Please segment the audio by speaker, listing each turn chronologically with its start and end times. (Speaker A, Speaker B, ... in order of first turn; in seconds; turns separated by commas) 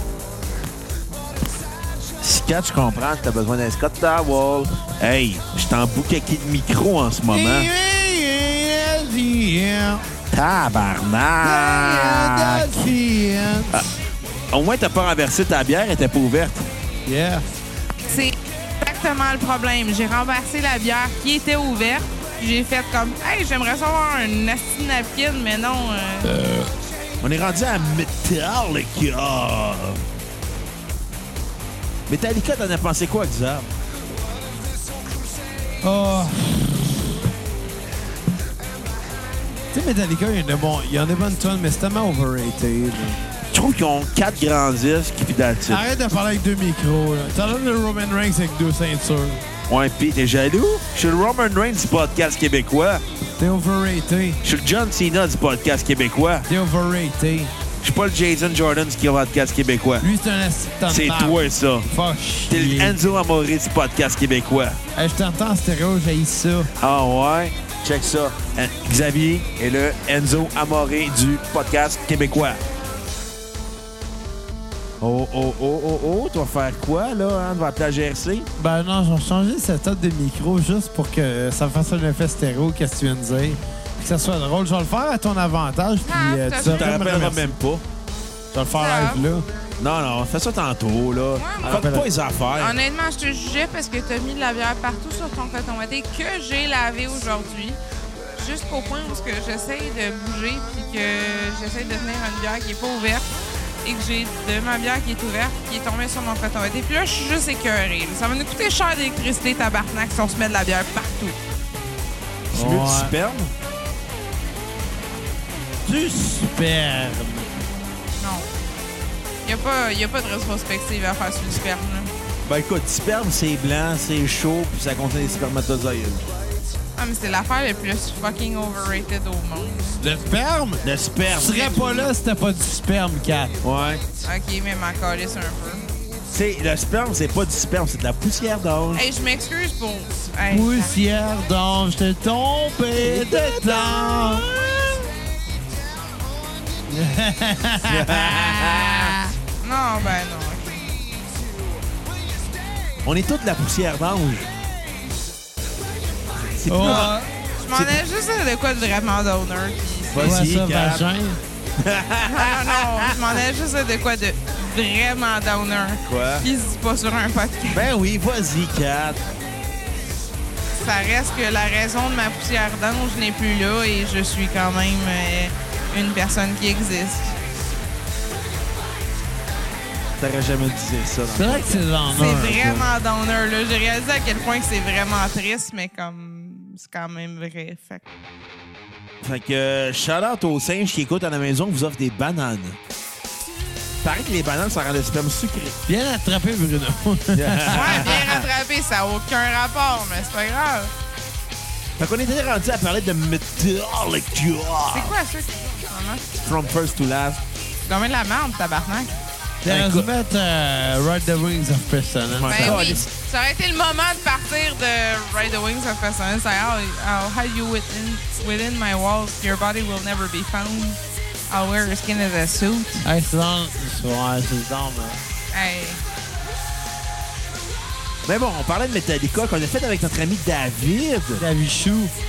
Speaker A: 2.2-7.7, Speaker B: 7.3-10.1, Speaker A: 10.3-12.7, Speaker B: 11.4-13.8, Speaker A: 14.5-16.7, Speaker B: 17.1-17.4, Speaker C: 18.1-26.4, Speaker A: 27.2-30.0, Speaker A: 32.1-33.7, Speaker B: 35.8-37.1, Speaker B: 39.7-43.2, Speaker A: 43.5-45.8, Speaker B: 45.7-49.5, Speaker A: 49.7-53.0, Speaker B: 53.4-54.4, Speaker A: 54.4-56.5, Speaker B: 56.5-57.5, Speaker A: 57.8-60.1, Speaker B: 60.0-63.0, Speaker A: 60.9-61.9, Speaker A: 62.5-64.8, Speaker B: 65.0-66.7, Speaker A: 66.8-72.6, Speaker A: 75.0-78.5, Speaker B: 78.6-87.6, Speaker C: 86.0-87.0, Speaker A: 86.6-87.8, Speaker B: 88.5-89.5, Speaker C: 88.8-89.2, Speaker A: 89.8-92.8, Speaker C: 91.4-91.9, Speaker B: 91.6-92.1, Speaker C: 92.6-97.8, Speaker C: 98.4-103.3, Speaker C: 103.8-111.4, Speaker A: 112.5-113.5, Speaker B: 112.5-113.1, Speaker B: 115.8-117.6, Speaker C: 118.2-118.5, Speaker C: 119.4-122.1, Speaker A: 122.5-126.3, Speaker C: 127.0-130.0, Speaker B: 130.0-133.6, Speaker A: 130.8-131.9, Speaker A: 133.6-134.0, Speaker C: 134.2-135.9, Speaker A: 136.3-139.1, Speaker C: 138.9-140.9, Speaker B: 140.5-144.5, Speaker A: 143.0-145.1, Speaker B: 146.9-149.3, Speaker A: 147.9-149.2, Speaker C: 149.6-150.9, Speaker A: 153.1-154.5, Speaker A: 156.4-157.2, Speaker B: 156.7-157.3, Speaker C: 156.8-160.4, Speaker A: 160.1-161.1, Speaker B: 160.2-161.4, Speaker A: 161.8-163.2, Speaker C: 162.2-167.9, Speaker A: 166.1-166.5, Speaker A: 167.7-169.2, Speaker C: 170.8-177.4, Speaker A: 180.2-181.8, Speaker B: 181.3-182.9, Speaker C: 182.1-188.1, Speaker A: 189.2-192.8, Speaker A: 194.0-195.8, Speaker B: 195.9-198.4, Speaker A: 197.3-198.4, Speaker C: 197.7-200.9, Speaker A: 202.0-205.1, Speaker C: 204.9-206.3, Speaker A: 206.4-207.4, Speaker C: 207.9-209.2, Speaker B: 209.6-213.0, Speaker A: 209.7-210.1, Speaker A: 212.3-213.1, Speaker C: 212.5-223.1, Speaker B: 223.0-225.2, Speaker C: 225.5-226.0, Speaker A: 228.3-231.4, Speaker B: 231.4-232.1